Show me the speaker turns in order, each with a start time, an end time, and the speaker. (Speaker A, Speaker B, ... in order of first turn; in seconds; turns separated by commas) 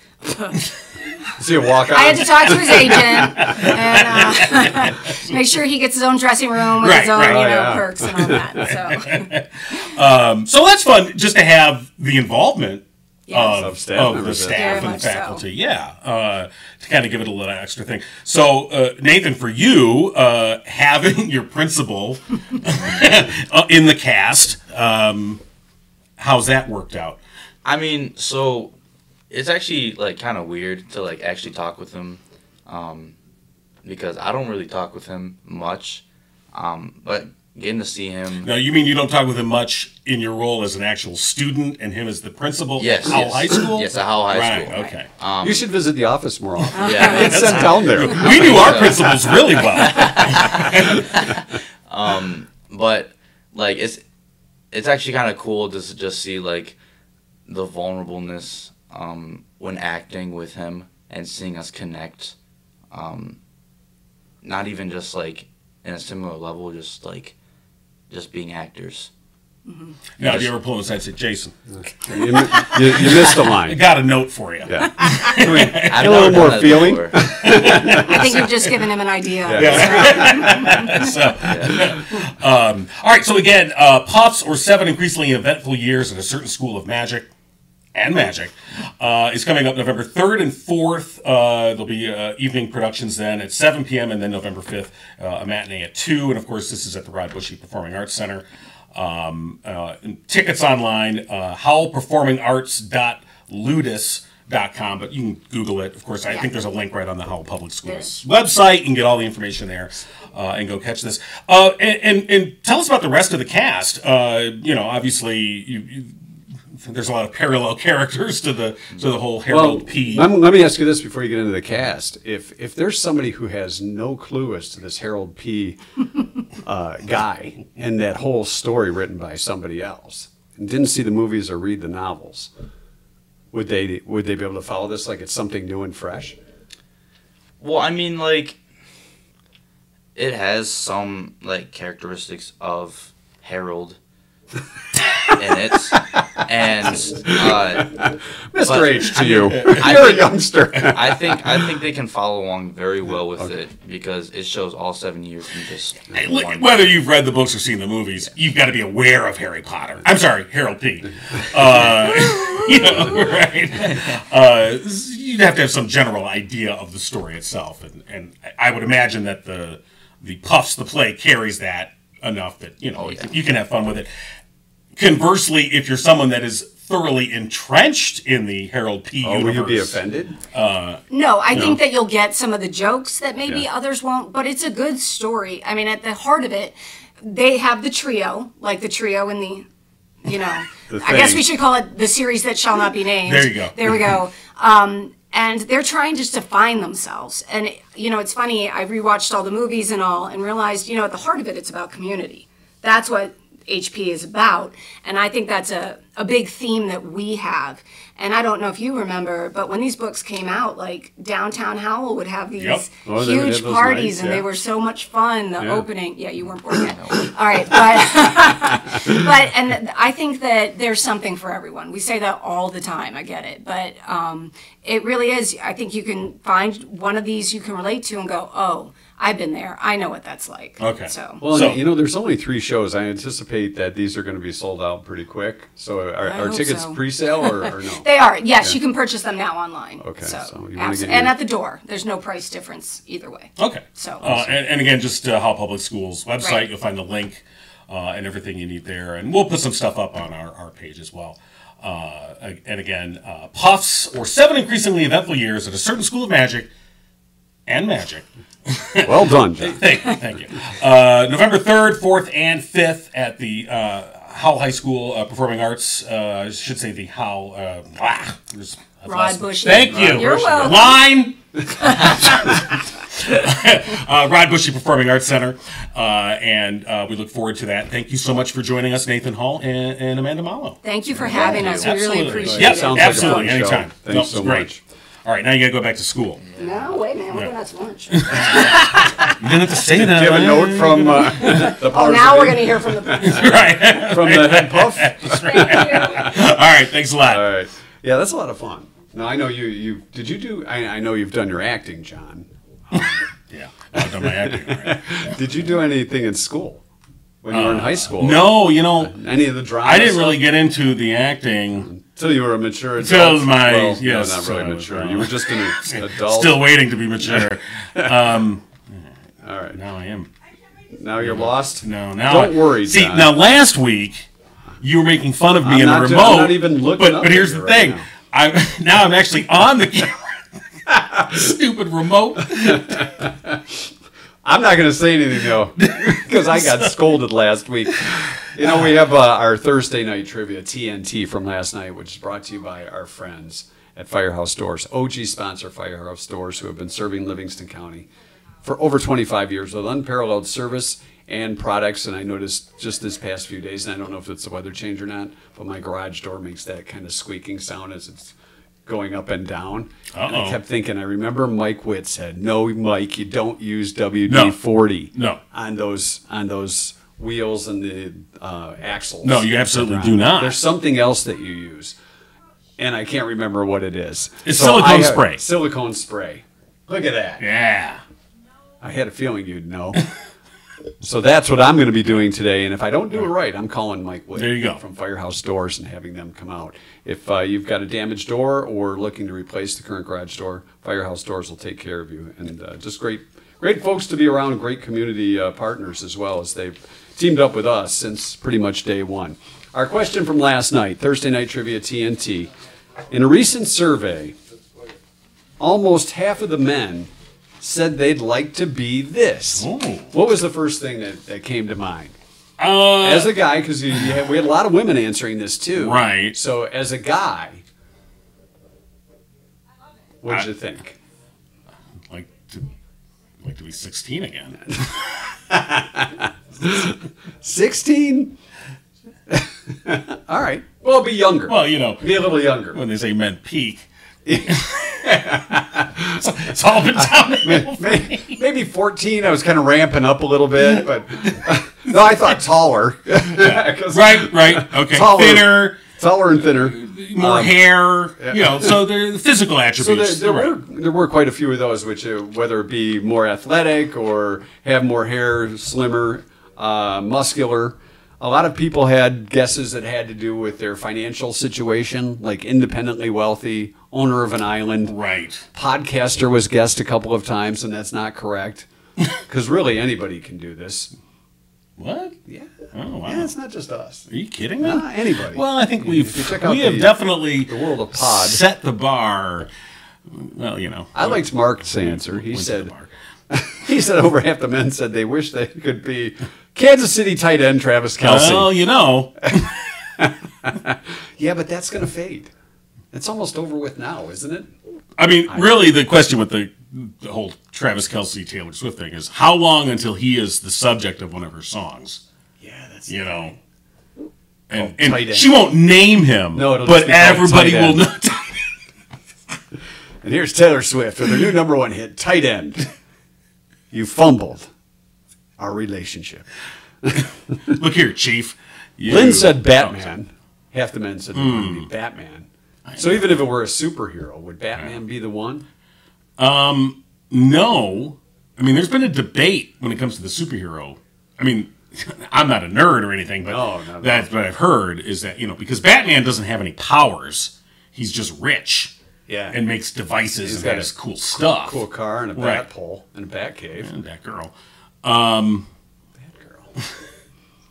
Speaker A: 0.2-0.6, Speaker B: 1.4-3.7, Speaker A: 1.9-9.3, Speaker C: 2.9-5.3, Speaker C: 6.8-7.5, Speaker B: 7.1-8.6, Speaker C: 8.6-25.4, Speaker A: 13.3-13.6, Speaker B: 13.3-15.0, Speaker A: 14.5-15.4, Speaker C: 26.2-27.2, Speaker D: 27.6-28.7, Speaker D: 29.3-33.1, Speaker D: 33.8-38.5, Speaker C: 38.4-45.1, Speaker D: 42.8-45.7, Speaker B: 45.4-49.4, Speaker A: 46.7-47.4, Speaker D: 46.8-54.0, Speaker C: 47.1-51.2, Speaker D: 54.7-56.8, Speaker D: 57.5-62.3, Speaker D: 62.9-63.4, Speaker D: 64.4-67.3, Speaker D: 68.1-69.1, Speaker A: 69.7-69.9, Speaker C: 70.2-71.5, Speaker D: 70.2-70.5, Speaker B: 72.0-73.8, Speaker C: 72.1-78.4, Speaker B: 74.7-78.4, Speaker D: 75.8-77.4, Speaker A: 77.8-80.9, Speaker B: 79.4-80.9, Speaker C: 79.5-87.3, Speaker D: 81.4-81.8, Speaker C: 87.9-116.1, Speaker C: 116.8-120.3, Speaker B: 119.5-125.8, Speaker B: 126.5-132.5, Speaker B: 133.5-136.4, Speaker D: 137.6-138.6, Speaker D: 140.1-144.0, Speaker D: 145.3-148.0, Speaker B: 147.2-151.7, Speaker D: 148.6-157.0, Speaker C: 149.3-150.0, Speaker C: 156.1-174.1, Speaker D: 172.9-173.3, Speaker C: 174.9-180.0, Speaker B: 179.2-180.4, Speaker C: 180.5-181.8, Speaker A: 181.1-189.7, Speaker A: 190.2-231.4, Speaker B: 190.9-191.4, Speaker C: 193.2-193.8, Speaker C: 212.6-212.9, Speaker B: 213.0-214.5, Speaker B: 215.6-215.9, Speaker D: 216.8-217.2, Speaker C: 230.8-231.8, Speaker B: 231.4-238.1, Speaker A: 236.2-244.2, Speaker B: 240.0-241.4, Speaker C: 243.6-256.7, Speaker B: 244.2-244.6, Speaker A: 246.4-246.7, Speaker C: 257.7-284.7, Speaker B: 259.0-259.8, Speaker A: 269.1-271.0, Speaker B: 269.9-270.4, Speaker A: 280.8-283.6, Speaker B: 281.3-284.8, Speaker D: 281.5-281.9, Speaker C: 285.2-286.4, Speaker A: 286.6-289.4, Speaker C: 288.1-291.7, Speaker B: 289.9-296.3, Speaker A: 291.4-293.5, Speaker C: 293.2-297.5, Speaker A: 295.5-296.3, Speaker B: 297.2-303.2, Speaker C: 302.9-305.3, Speaker B: 303.9-306.8, Speaker B: 307.4-310.5, Speaker C: 307.5-309.2, Speaker C: 309.8-311.9, Speaker B: 311.8-316.7, Speaker C: 313.0-319.1, Speaker B: 317.2-318.4, Speaker B: 319.4-319.8, Speaker C: 319.7-320.3, Speaker B: 320.9-323.4, Speaker C: 321.2-324.3, Speaker C: 324.8-330.2, Speaker B: 325.6-328.1, Speaker B: 330.9-331.4, Speaker C: 331.2-333.1, Speaker B: 332.4-333.8, Speaker B: 334.4-348.1, Speaker C: 335.8-336.9, Speaker B: 348.6-358.3, Speaker B: 358.9-371.9, Speaker C: 360.1-360.6, Speaker C: 364.3-364.6, Speaker C: 365.1-365.4, Speaker C: 369.2-370.6, Speaker B: 372.8-377.4, Speaker C: 374.4-375.4, Speaker C: 377.4-378.0, Speaker B: 378.8-380.1, Speaker B: 381.0-402.5, Speaker C: 384.4-384.8, Speaker B: 403.1-404.4, Speaker B: 405.6-412.1, Speaker C: 409.6-410.1, Speaker C: 412.6-413.3, Speaker B: 413.0-417.6, Speaker C: 415.8-416.4, Speaker B: 420.2-421.0, Speaker C: 422.1-422.7, Speaker C: 423.4-425.1, Speaker B: 425.5-428.4, Speaker B: 429.3-432.8, Speaker C: 431.5-433.9, Speaker B: 434.2-436.1, Speaker C: 434.5-435.2, Speaker C: 436.0-438.4, Speaker B: 437.0-448.9, Speaker C: 443.3-445.8, Speaker C: 446.7-450.5, Speaker B: 449.8-464.9, Speaker C: 464.9-465.4, Speaker B: 465.5-468.7, Speaker B: 469.2-470.9, Speaker C: 471.8-472.2, Speaker C: 472.7-473.3, Speaker B: 473.0-474.1, Speaker C: 474.1-479.5, Speaker B: 474.6-478.4, Speaker C: 480.1-482.9, Speaker B: 480.9-482.7, Speaker B: 483.3-488.6, Speaker C: 488.0-489.6, Speaker B: 490.0-492.3, Speaker B: 492.9-494.5, Speaker C: 495.0-502.0, Speaker B: 495.3-495.7, Speaker B: 502.4-503.4, Speaker C: 502.9-503.4, Speaker C: 504.5-508.4, Speaker B: 504.5-505.4, Speaker B: 506.3-507.8, Speaker B: 510.0-512.7, Speaker B: 513.7-514.5, Speaker B: 515.4-516.3, Speaker B: 516.8-517.6, Speaker C: 517.5-519.9, Speaker B: 518.9-525.5, Speaker C: 521.1-521.7, Speaker C: 522.7-523.1, Speaker C: 526.2-538.7, Speaker B: 533.2-534.1, Speaker B: 539.1-539.4, Speaker C: 539.3-541.6, Speaker B: 540.2-543.7, Speaker C: 542.1-542.4, Speaker C: 543.6-544.3, Speaker C: 544.8-545.5, Speaker B: 546.0-546.5